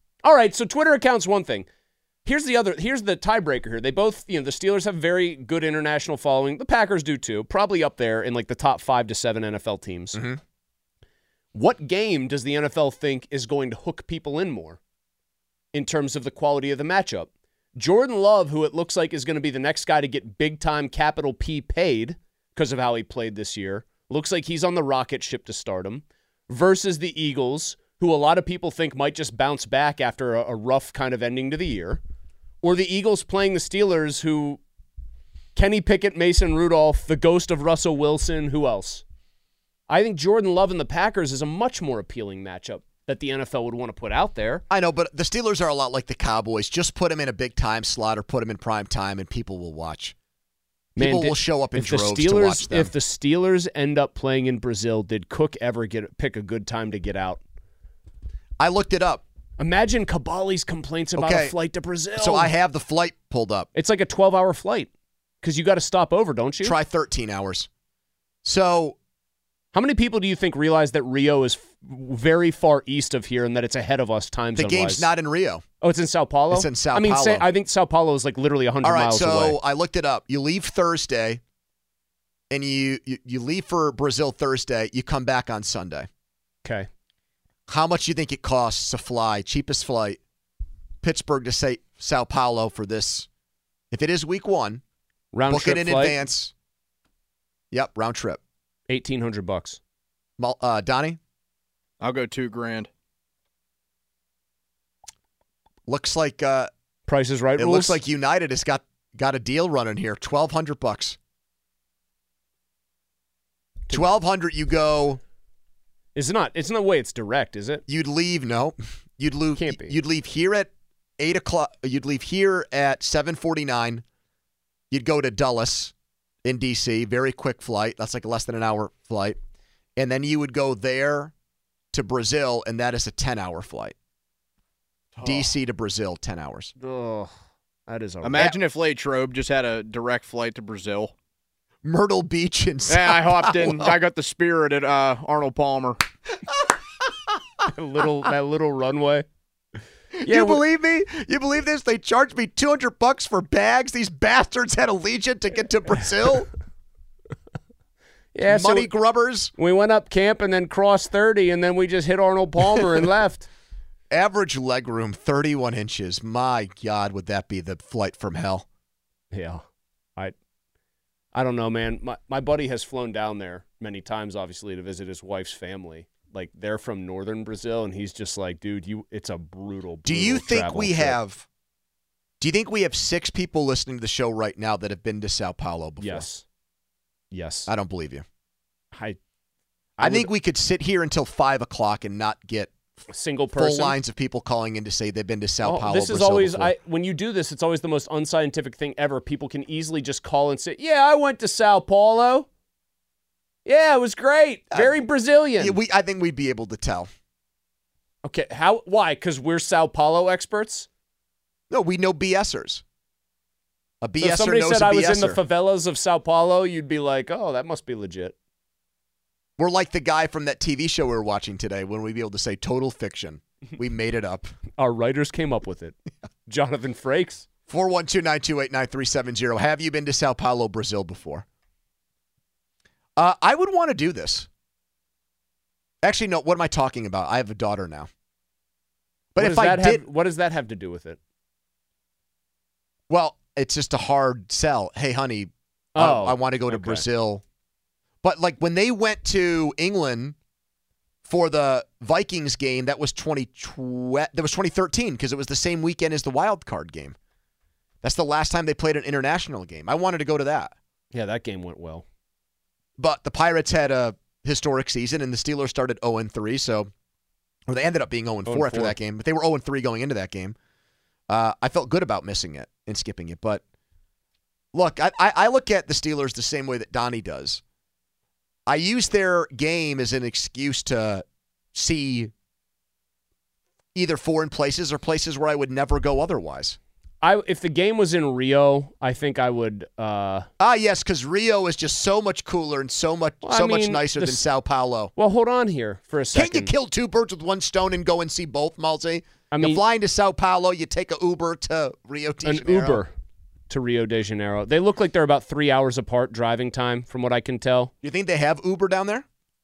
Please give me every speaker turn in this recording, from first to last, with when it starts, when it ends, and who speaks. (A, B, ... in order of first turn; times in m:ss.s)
0:00.2-0:01.7 A
0:02.2-0:10.2 A
0:11.5-0:14.8 A
0:15.7-0:32.0 A
0:32.6-0:34.6 A
0:35.6-0:39.0 A
0:39.9-0:44.6 A
0:44.7-0:50.1 B
0:51.0-0:52.9 B
0:51.0-0:57.4 A
0:58.6-0:59.2 B
0:59.6-1:02.5 A
1:01.2-1:01.6 B
1:02.2-1:03.7 B
1:03.8-1:04.9 A
1:05.4-1:06.8 A
1:06.6-1:07.7 B
1:08.4-1:09.0 B
1:09.7-1:15.1 A
1:14.6-1:15.6 B
1:15.8-1:19.6 A
1:16.5-1:17.5 B
1:18.8-1:21.4 B
1:22.5-1:26.1 B
1:27.7-1:30.2 B
1:31.0-1:33.3 B
1:33.9-1:34.8 B
1:35.3-1:36.2 A
1:35.5-1:36.5 B
1:37.7-1:38.4 B
1:38.9-1:39.8 A
1:40.4-1:41.2 B
1:42.0-1:42.9 C
1:45.9-1:46.7 B
1:47.1-1:48.0 A
1:47.6-1:51.2 B
1:53.9-1:55.2 B
1:56.2-1:57.8 A
1:57.9-2:04.0 B
1:59.6-2:00.0 A
2:04.9-2:05.9 B
2:06.4-2:09.4 B
2:10.0-2:11.3 B
2:11.9-2:13.9 B
2:15.2-2:15.6 C
2:15.2-2:16.7 B
2:16.8-2:17.3 A
2:17.9-2:18.6 A
2:18.2-2:21.1 C
2:21.8-2:23.9 B
2:22.9-2:26.0 C
2:27.7-2:29.3 A
2:30.2-2:36.5 B
2:30.3-2:30.6 A
2:38.4-2:38.9 A
2:38.5-2:39.5 B
2:39.6-2:43.5 A
2:44.1-2:48.6 B
2:49.3-2:49.6 A
2:51.3-3:01.2 A
3:00.0-3:01.4 B
3:02.4-3:06.3 B
3:06.0-3:06.4 A
3:07.3-3:07.7 A
3:07.7-3:08.2 B
3:08.9-3:09.2 A
3:10.0-3:10.3 A
3:10.0-3:12.7 B
3:13.1-3:14.0 A
3:13.6-3:16.7 B
3:15.6-3:22.5 A
3:23.6-3:25.8 A
3:25.6-3:27.1 B
3:28.2-3:30.9 A
3:31.7-3:32.8 B
3:34.0-3:35.4 B
3:34.2-3:38.4 A
3:39.6-3:44.5 B
3:44.8-3:47.4 A
3:47.7-3:51.4 B
3:53.2-3:54.5 B
3:56.0-3:58.1 B
3:59.4-4:00.0 B
3:59.4-4:01.2 A
4:03.1-4:07.4 B
4:06.0-4:07.0 A
4:08.2-4:10.4 B
4:11.3-4:17.2 B
4:18.0-4:20.7 B
4:21.1-4:22.0 A
4:23.0-4:26.9 B
4:27.7-4:30.6 B
4:28.5-4:29.0 A
4:31.3-4:33.6 B
4:34.7-4:37.6 B
4:38.7-4:41.2 B
4:41.8-4:42.3 B
4:44.0-4:46.8 B
4:47.2-4:50.5 A
4:50.6-4:55.1 B
4:53.4-4:54.4 A
4:55.2-4:56.7 A
4:56.3-5:03.0 B
4:59.5-4:59.8 A
5:02.4-5:03.1 A
5:03.7-5:07.9 A
5:08.0-5:09.2 B